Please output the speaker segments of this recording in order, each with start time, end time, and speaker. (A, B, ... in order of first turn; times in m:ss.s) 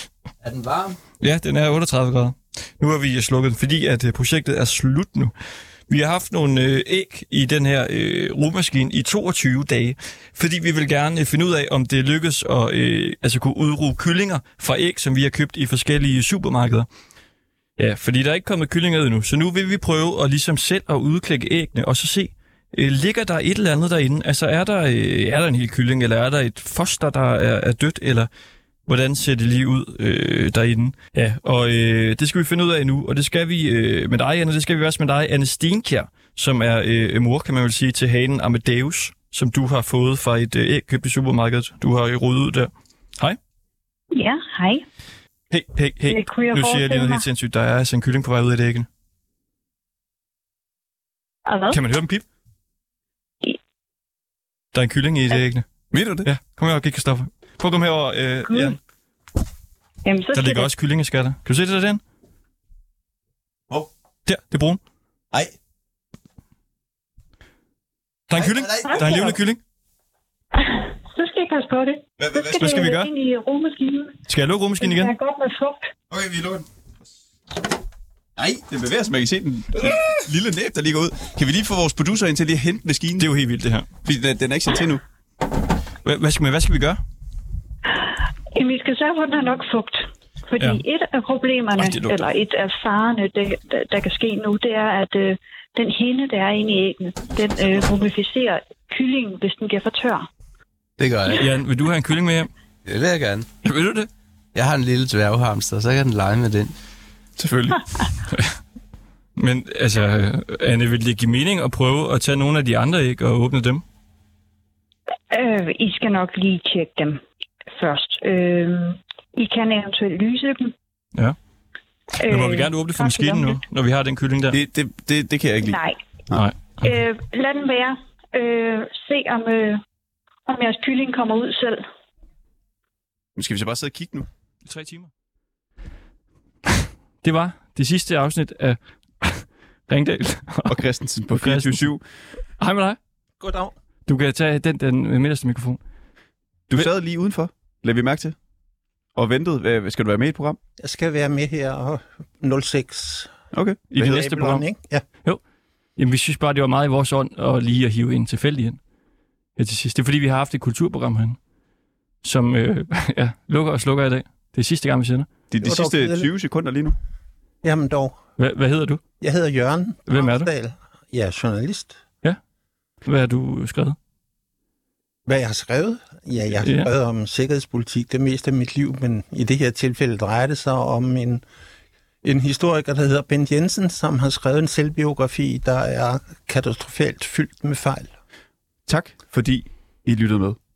0:00.4-0:00.8 A
0:01.2-0:05.3 B
0:05.9-0:16.9 B
0:17.8-0:28.3 B
0:28.9-0:43.4 B
0:44.1-0:44.8 C
0:45.5-0:48.9 B
0:46.1-0:47.2 C
0:51.5-0:51.8 C
0:51.7-0:52.2 B
0:54.7-0:58.8 B
0:55.9-0:56.3 D
1:00.0-1:00.7 C
1:00.3-1:02.0 B
1:04.3-1:04.8 B
1:08.3-1:09.6 B
1:08.4-1:09.3 D
1:11.2-1:14.1 C
1:12.2-1:12.8 D
1:12.6-1:13.1 B
1:14.3-1:15.1 B
1:16.1-1:16.6 D
1:18.4-1:23.3 D
1:23.2-1:23.9 B
1:24.0-1:25.0 D
1:26.0-1:27.0 B
1:28.6-1:40.3 C
1:30.6-1:30.8 B
1:31.8-1:32.2 B
1:41.3-1:42.5 B
1:42.9-1:43.4 A
1:43.6-1:44.1 B
1:44.6-1:46.7 A
1:47.4-1:47.9 D
1:49.4-1:53.8 B
1:55.3-1:57.2 C
1:57.7-2:00.7 C
2:02.2-2:03.6 C
2:02.2-2:04.6 B
2:04.5-2:06.4 D
2:05.6-2:06.0 C
2:06.3-2:06.9 B
2:06.8-2:09.8 C
2:10.5-2:11.8 C
2:13.4-2:14.3 D
2:14.6-2:15.1 B
2:17.2-2:20.8 B
2:20.7-2:22.0 D
2:21.3-2:22.0 B
2:22.6-2:23.0 B
2:23.4-2:23.7 E
2:24.1-2:25.8 B
2:26.7-2:28.4 D
2:29.2-2:30.6 D
2:30.8-2:33.3 E
2:33.5-2:34.0 D
2:33.9-2:35.4 B
2:34.0-2:35.0 E
2:36.0-2:38.8 B
2:39.6-2:41.4 B
2:42.2-2:45.3 B
2:45.5-2:47.0 D
2:45.6-2:46.3 E
2:47.6-2:48.2 E
2:48.4-2:49.0 B
2:49.2-2:52.0 E
2:50.1-2:50.5 B
2:53.0-2:54.0 B
2:55.3-3:01.4 E
2:56.6-2:56.9 B
3:02.2-3:08.1 E
3:08.9-3:10.6 D